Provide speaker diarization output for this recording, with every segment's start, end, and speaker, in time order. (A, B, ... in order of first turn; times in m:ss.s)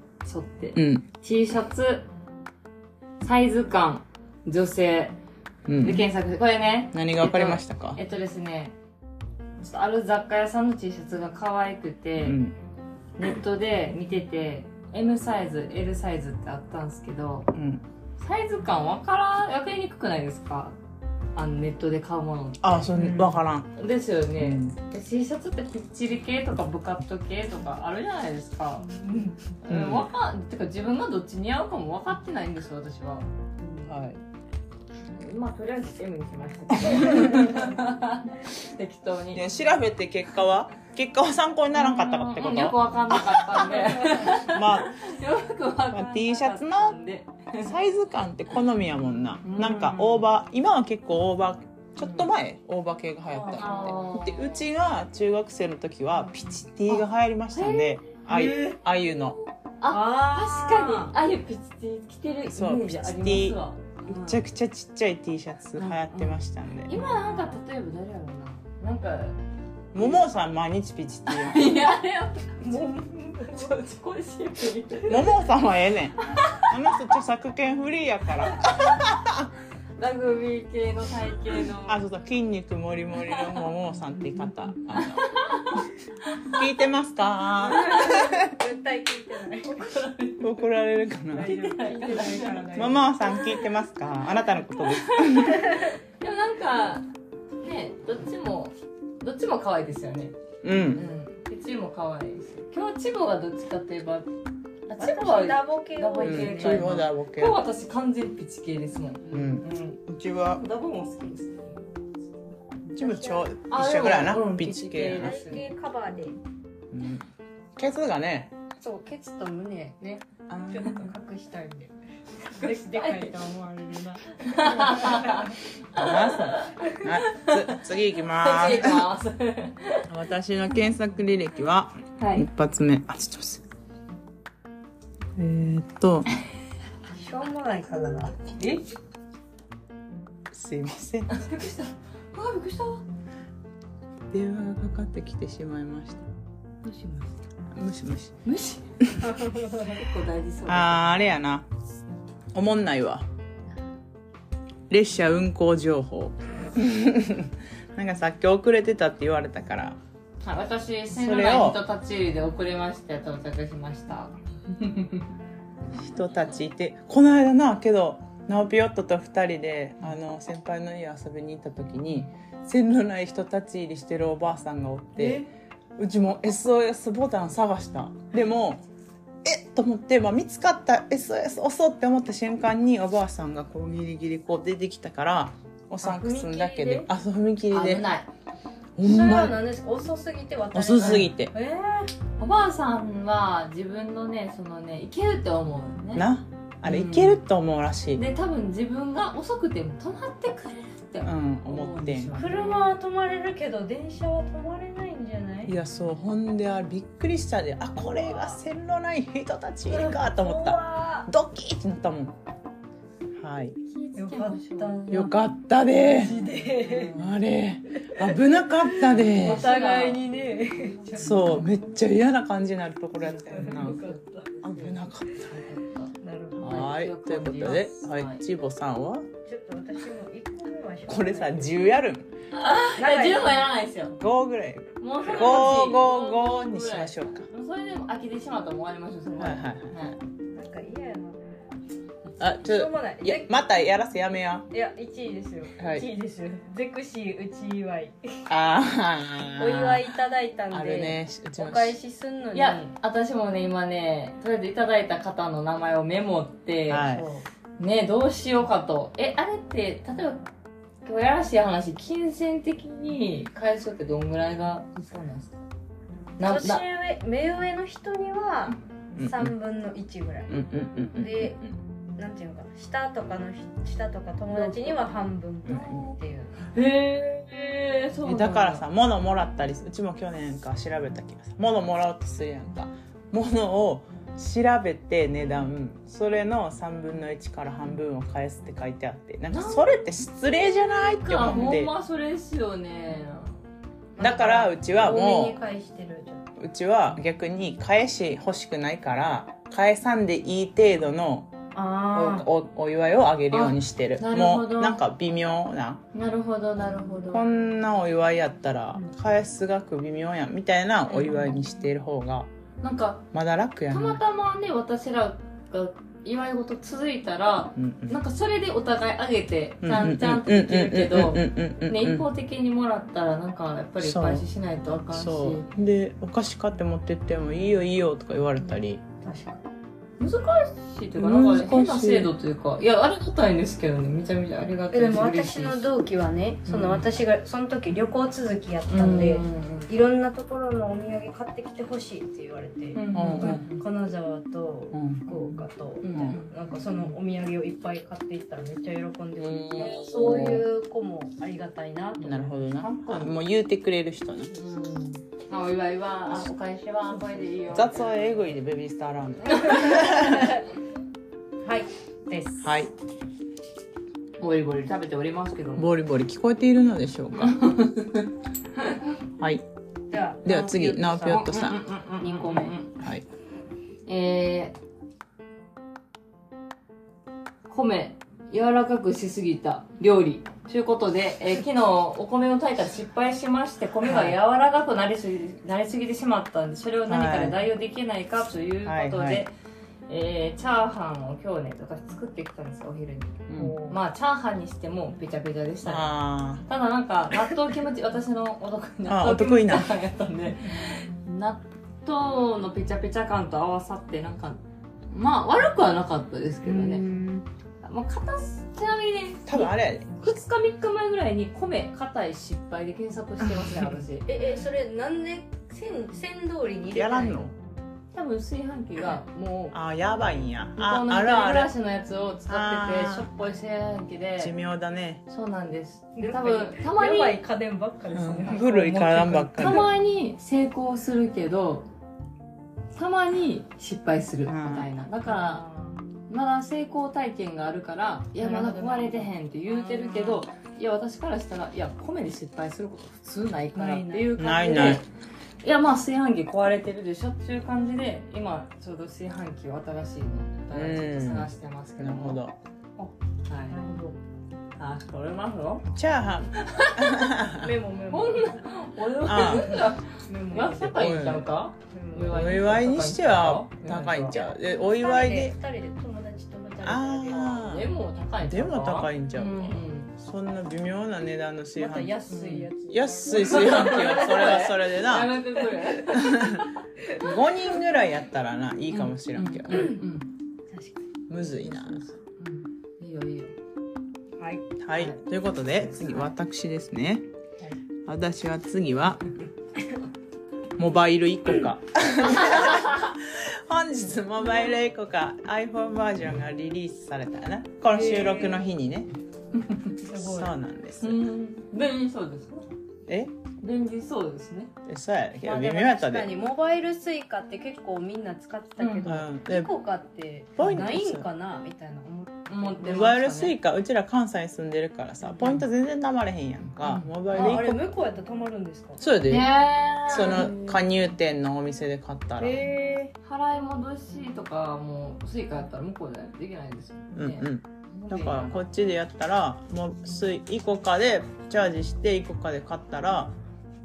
0:00.2-0:02.1 A
0:00.8-0:01.0 B
0:03.2-0:05.2 A
0:05.7-0:06.1 B
0:05.8-0:08.8 A
0:06.9-0:08.0 B
0:09.6-0:12.4 A
0:12.2-0:12.5 B
0:13.2-0:17.5 A
0:17.5-0:17.8 B
0:18.2-0:20.8 A
0:21.3-0:23.0 A
0:22.6-0:23.7 B
0:22.9-0:23.3 C
0:23.7-0:28.9 A
0:24.4-0:24.8 B
0:28.9-0:29.3 C
0:29.6-0:33.8 A
0:29.7-0:30.1 B
0:33.8-0:34.2 B
0:35.1-0:39.4 A
0:39.3-0:45.0 B
0:41.8-0:47.7 A
0:45.9-0:47.0 B
0:47.6-0:59.4 B
0:49.4-0:50.2 A
0:52.0-0:52.3 A
0:53.3-0:54.1 C
0:53.6-0:54.6 A
0:56.9-0:58.8 A
0:59.8-1:04.4 A
0:59.9-1:01.1 C
1:02.4-1:06.9 B
1:05.8-1:09.4 A
1:06.9-1:07.5 C
1:09.9-1:11.8 B
1:11.3-1:15.3 A
1:12.6-1:13.7 C
1:15.1-1:19.5 B
1:16.3-1:16.7 A
1:20.0-1:22.0 A
1:21.8-1:25.3 B
1:23.3-1:23.6 A
1:25.0-1:26.6 A
1:26.5-1:28.6 B
1:27.7-1:29.9 C
1:27.8-1:28.1 A
1:29.7-1:30.6 A
1:30.4-1:31.5 B
1:31.3-1:33.1 C
1:31.4-1:32.9 A
1:32.7-1:35.8 B
1:35.1-1:37.1 A
1:35.5-1:35.9 C
1:37.6-1:40.4 A
1:40.6-1:41.1 B
1:40.9-1:44.3 A
1:44.9-1:51.8 A
1:45.0-1:47.0 C
1:46.2-1:47.6 B
1:49.3-1:50.6 B
1:52.9-1:55.4 B
1:53.0-1:53.5 C
1:53.7-1:55.7 A
1:55.2-1:56.4 C
1:56.9-1:57.2 B
1:57.8-1:58.5 B
1:58.8-2:01.9 C
2:00.5-2:01.1 B
2:02.5-2:05.5 C
2:02.5-2:03.4 A
2:04.4-2:10.1 A
2:05.9-2:09.1 B
2:10.1-2:13.6 B
2:12.2-2:12.5 A
2:15.4-2:16.3 B
2:17.1-2:18.8 C
2:20.5-2:21.3 B
2:21.3-2:23.0 A
2:24.3-2:26.3 B
2:26.8-2:27.4 A
2:27.7-2:28.4 B
2:28.4-2:28.8 A
2:29.2-2:30.0 C
2:29.8-2:31.3 A
2:30.7-2:31.7 B
2:32.5-2:33.2 B
2:34.9-2:40.0 B
2:40.4-2:44.3 A
2:41.1-2:41.8 B
2:45.9-2:55.4 B
2:56.0-2:58.8 B
2:59.4-3:08.0 B
3:06.0-3:07.1 C
3:07.7-3:08.3 A
3:09.0-3:09.6 B
3:09.0-3:12.1 C
3:10.7-3:11.5 B
3:11.0-3:11.3 A
3:12.4-3:16.3 A
3:16.1-3:18.2 B
3:16.8-3:17.4 A
3:18.1-3:22.9 A
3:21.2-3:22.3 B
3:22.3-3:25.7 C
3:25.6-3:32.4 B
3:28.0-3:28.6 C
3:29.9-3:31.3 C
3:33.4-3:33.8 B
3:33.9-3:35.0 A
3:34.2-3:35.3 C
3:35.1-3:36.3 B
3:36.0-3:37.1 C
3:36.4-3:37.3 A
3:37.1-3:39.7 B
3:39.1-3:41.6 A
3:39.4-3:41.4 C
3:41.2-3:44.1 B
3:43.4-3:44.6 C
3:43.4-3:48.4 A
3:44.6-3:45.6 B
3:46.2-3:46.7 C
3:46.6-3:49.3 B
3:49.4-3:51.8 C
3:51.1-3:52.3 B
3:52.5-3:54.2 A
3:53.0-3:53.8 C
3:54.2-3:57.4 B
3:55.0-4:00.2 A
3:59.4-3:59.9 B
4:00.5-4:01.4 C
4:02.4-4:04.7 B
4:02.6-4:03.6 C
4:04.7-4:08.4 C
4:05.8-4:06.0 B
4:08.5-4:10.1 B
4:09.6-4:12.8 C
4:10.7-4:12.0 B
4:12.5-4:17.3 A
4:16.9-4:17.2 B
4:17.1-4:17.4 C
4:17.8-4:20.4 A
4:21.0-4:25.5 A
4:26.4-4:26.8 A
4:26.4-4:30.6 C
4:29.2-4:29.5 B
4:30.5-4:31.7 B
4:31.1-4:31.6 C
4:32.2-4:36.5 C
4:34.5-4:35.1 A
4:35.6-4:36.0 B
4:36.6-4:38.8 A
4:38.2-4:51.9 B
4:49.5-4:49.9 A
4:51.2-4:53.6 A
4:54.2-4:55.6 B
4:54.2-4:56.4 C
4:56.6-5:01.5 B
5:01.7-5:02.4 C
5:02.1-5:06.0 B
5:03.5-5:05.0 A
5:06.1-5:07.4 A
5:07.3-5:12.5 B
5:12.8-5:13.3 A
5:13.3-5:14.2 B
5:13.9-5:25.7 A
5:17.8-5:18.2 B
5:19.8-5:22.3 B
5:24.0-5:24.4 B
5:25.1-5:29.0 B
5:29.2-5:29.6 C
5:30.2-5:35.9 A
5:31.1-5:32.3 B
5:34.9-5:52.6 C
5:36.7-5:37.1 A
5:38.9-5:39.9 A
5:42.9-5:43.8 A
5:43.1-5:43.6 B
5:44.9-5:45.5 B
5:46.0-5:46.5 A
5:46.1-5:46.4 B
5:49.4-5:50.6 A
5:50.0-5:50.6 B
5:52.2-5:54.6 B
5:52.8-5:53.3 A
5:54.6-5:58.6 A
5:57.7-6:00.6 B
5:59.5-6:00.0 A
5:59.7-6:00.6 C
6:01.6-6:02.7 C
6:02.6-6:02.9 B
6:04.4-6:05.9 A
6:05.8-6:07.6 B
6:07.3-6:09.0 A
6:09.4-6:09.6 B
6:10.1-6:11.5 C
6:10.4-6:11.8 B
6:11.3-6:13.0 A
6:12.2-6:12.7 C
6:14.0-6:14.8 A
6:17.7-6:29.5 A
6:24.0-6:24.3 B
6:27.1-6:27.6 B
6:28.8-6:29.5 B
6:30.1-6:47.0 A
6:33.5-6:33.8 B
6:33.6-6:34.0 C
6:35.8-6:36.6 B
6:39.1-6:39.9 B
6:46.7-6:47.4 C
6:47.8-6:54.3 A
6:49.4-6:50.2 B
6:54.3-6:57.5 C
6:56.9-6:57.5 B
6:58.1-6:59.8 A
6:59.7-7:01.7 B
7:00.8-7:04.5 A
7:02.5-7:03.3 B
7:04.4-7:05.2 B
7:05.3-7:07.4 A
7:06.2-7:09.1 C
7:08.1-7:09.9 B
7:08.5-7:11.9 A
7:12.9-7:15.6 A
7:14.5-7:14.9 B
7:15.2-7:16.0 C
7:16.3-7:25.0 A
7:18.4-7:20.4 C
7:23.7-7:24.8 C
7:24.4-7:25.0 B
7:25.6-7:32.4 A
7:30.7-7:32.6 B
7:33.5-7:33.8 A
7:33.7-7:34.2 C
7:34.8-7:35.9 A
7:35.9-7:37.7 B
7:36.5-7:37.4 A
7:37.6-7:38.6 C
7:38.1-7:44.4 A
7:39.2-7:39.8 B
7:39.4-7:41.0 C
7:40.8-7:41.5 B
7:41.9-7:42.6 C
7:42.3-7:45.6 B
7:44.3-7:47.6 C
7:46.8-7:55.4 B
7:47.4-7:50.1 A
7:51.8-7:54.7 C
7:52.3-7:52.6 A
7:53.3-7:56.7 A
7:56.1-7:56.6 B
7:57.2-8:00.0 B
7:58.9-8:00.3 A
7:59.7-8:00.0 C
8:01.3-8:02.1 B
8:02.2-8:03.5 A
8:04.4-8:04.6 C
8:04.8-8:07.3 B
8:04.9-8:05.2 A
8:08.0-8:09.3 B
8:10.8-8:19.1 B
8:17.9-8:18.6 C
8:20.0-8:20.5 C
8:20.1-8:21.2 B
8:21.0-8:22.7 A
8:23.1-8:23.3 B
8:23.6-8:24.7 A
8:24.8-8:26.3 B
8:25.4-8:33.0 C
8:28.8-8:29.0 A
8:29.0-8:29.7 B
8:30.6-8:31.2 B
8:32.5-8:33.5 A
8:32.8-8:37.9 B
8:35.2-8:35.6 C
8:36.9-8:37.6 A
8:37.3-8:39.0 C
8:39.0-8:39.5 B
8:39.2-8:40.7 A
8:40.0-8:42.6 B
8:40.2-8:40.7 C
8:42.4-8:43.1 C
8:43.2-8:48.6 A
8:47.1-8:53.3 B